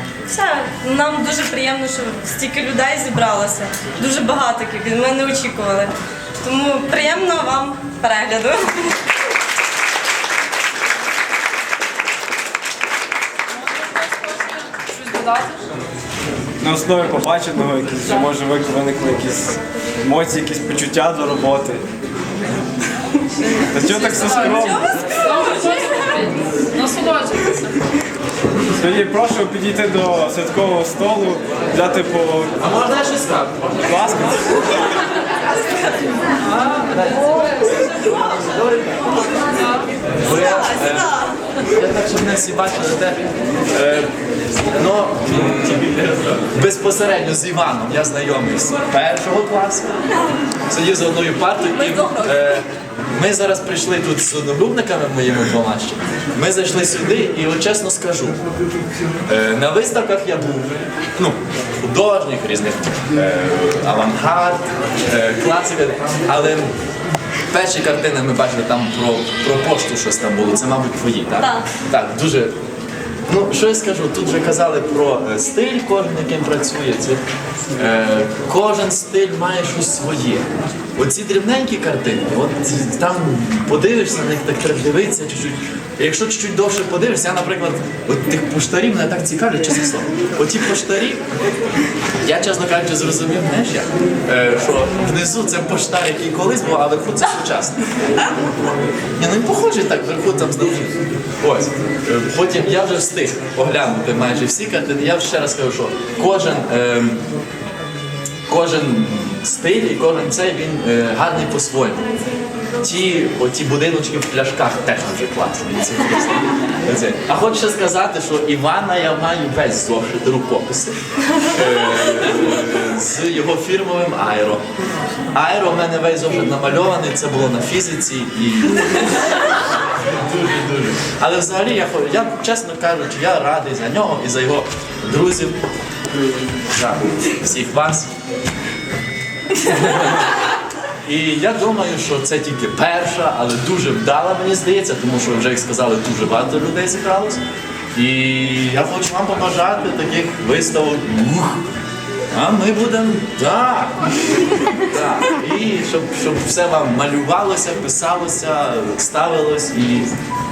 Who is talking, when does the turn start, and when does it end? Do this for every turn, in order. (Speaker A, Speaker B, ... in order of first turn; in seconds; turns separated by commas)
Speaker A: 0.2-9.0, Speaker B: 14.3-15.6, Speaker C: 16.6-21.9, Speaker C: 23.7-24.9, Speaker B: 24.1-24.6, Speaker A: 24.1-25.9, Speaker B: 25.1-27.7, Speaker C: 28.7-32.5, Speaker D: 32.6-34.5, Speaker C: 33.9-34.6, Speaker D: 36.7-39.3, Speaker D: 40.2-44.1, Speaker D: 44.7-49.9, Speaker D: 50.7-58.4, Speaker D: 59.3-66.7, Speaker D: 67.5-72.5, Speaker A: 71.4-71.7, Speaker D: 73.3-77.2, Speaker D: 77.8-80.4, Speaker D: 81.0-91.2, Speaker D: 92.2-97.9, Speaker D: 99.2-107.2, Speaker D: 108.5-112.1, Speaker D: 112.8-124.6, Speaker D: 125.3-129.1, Speaker D: 130.0-135.6, Speaker D: 136.7-138.1, Speaker D: 139.6-140.5, Speaker D: 141.0-147.4, Speaker D: 147.9-151.6, Speaker D: 152.3-154.0, Speaker D: 154.7-160.1